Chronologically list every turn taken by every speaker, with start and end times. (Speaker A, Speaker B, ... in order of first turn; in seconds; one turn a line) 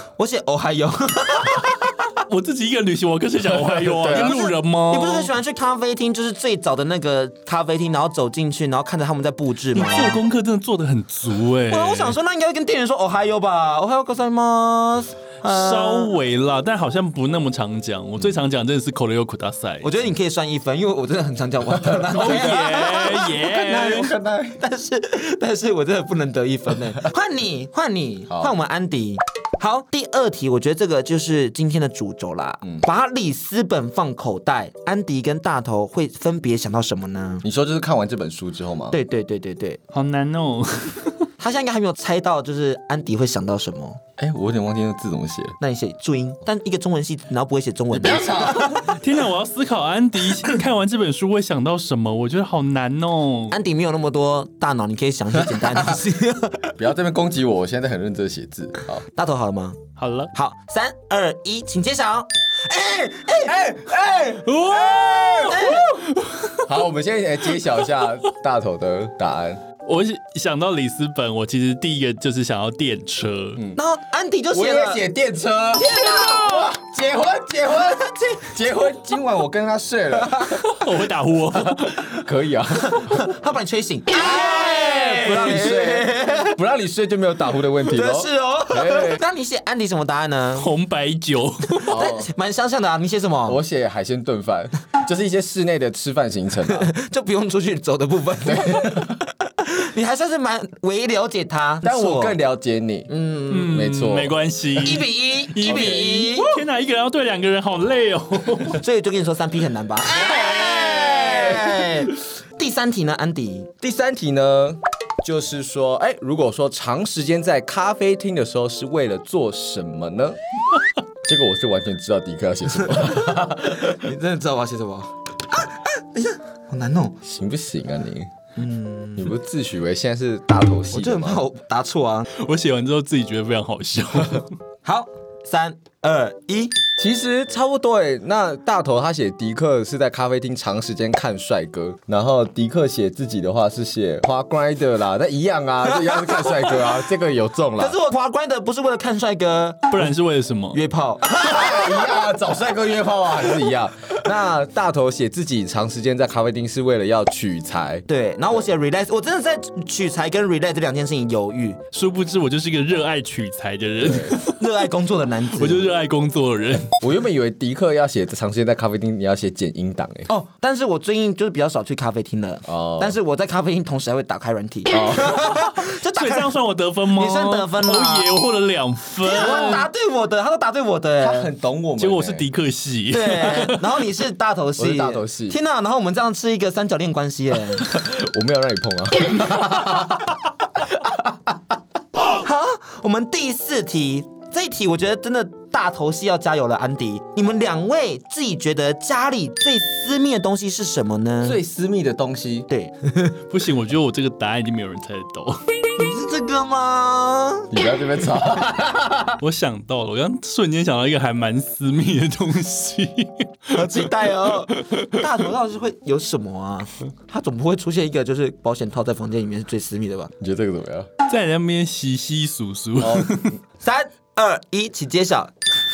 Speaker A: 0.2-2.1
Speaker B: 2.3-5.3
Speaker A: 4.0-10.2
Speaker C: 4.0-4.4
Speaker B: 9.7-12.2
Speaker A: 11.7-16.1
Speaker B: 15.4-19.9
Speaker A: 19.8-24.0
Speaker C: 21.8-22.9
Speaker B: 22.1-24.1
Speaker C: 23.6-24.6
Speaker A: 24.5-37.5
Speaker C: 37.4-39.0
Speaker A: 38.9-39.8
Speaker B: 39.9-41.3
Speaker A: 41.4-44.0
Speaker C: 44.2-45.6
Speaker A: 45.6-48.8
Speaker C: 47.9-48.8
Speaker B: 48.7-53.6
Speaker A: 53.5-56.8
Speaker C: 55.4-56.0
Speaker C: 56.8-59.0
Speaker A: 59.1-59.8
Speaker B: 60.0-60.3
Speaker A: 60.3-63.6
Speaker C: 63.4-65.8
Speaker B: 64.5-66.6
Speaker A: 65.5-66.0
Speaker C: 66.7-69.6
Speaker B: 69.9-73.6
Speaker A: 73.8-75.1
Speaker C: 74.5-80.5
Speaker A: 75.8-76.6
Speaker B: 80.5-82.1
Speaker C: 81.5-83.2
Speaker A: 82.8-86.6
Speaker C: 84.5-89.2
Speaker A: 87.8-90.7
Speaker B: 90.6-91.9
Speaker A: 91.9-93.6
Speaker C: 91.9-92.3
Speaker C: 93.5-96.9
Speaker A: 96.7-102.4
Speaker C: 98.5-99.2
Speaker C: 101.8-103.1
Speaker A: 103.1-103.7
Speaker B: 103.5-108.8
Speaker C: 103.6-105.0
Speaker A: 104.8-106.5
Speaker C: 105.6-106.1
Speaker A: 108.8-113.7
Speaker C: 110.1-111.7
Speaker C: 113.8-120.4
Speaker C: 121.2-123.8
Speaker A: 122.8-127.2
Speaker C: 127.2-128.3
Speaker A: 128.6-129.3
Speaker C: 129.2-131.4
Speaker A: 130.9-132.3
Speaker B: 132.3-134.5
Speaker A: 134.8-136.8
Speaker C: 137.0-148.0
Speaker A: 147.8-150.1
Speaker B: 149.9-150.8
Speaker A: 150.7-152.2
Speaker C: 151.3-158.1
Speaker A: 158.1-161.8
Speaker B: 161.9-164.8
Speaker C: 164.0-164.4
Speaker A: 164.6-165.9
Speaker B: 165.5-166.9
Speaker C: 167.0-170.3
Speaker A: 170.3-176.5
Speaker C: 172.7-173.2
Speaker C: 174.9-175.6
Speaker B: 175.9-179.9
Speaker A: 177.2-178.3
Speaker A: 179.2-181.5
Speaker C: 181.2-182.5
Speaker B: 182.0-183.9
Speaker A: 183.1-187.9
Speaker C: 184.8-185.6
Speaker C: 187.9-190.2
Speaker A: 192.2-201.6
Speaker C: 201.4-202.7
Speaker A: 202.7-203.4
Speaker B: 203.5-205.7
Speaker A: 206.0-207.7
Speaker C: 207.7-209.4
Speaker B: 209.4-215.2
Speaker A: 213.7-220.3
Speaker C: 220.4-221.1
Speaker B: 221.3-223.5
Speaker C: 223.0-223.5
Speaker A: 223.8-225.5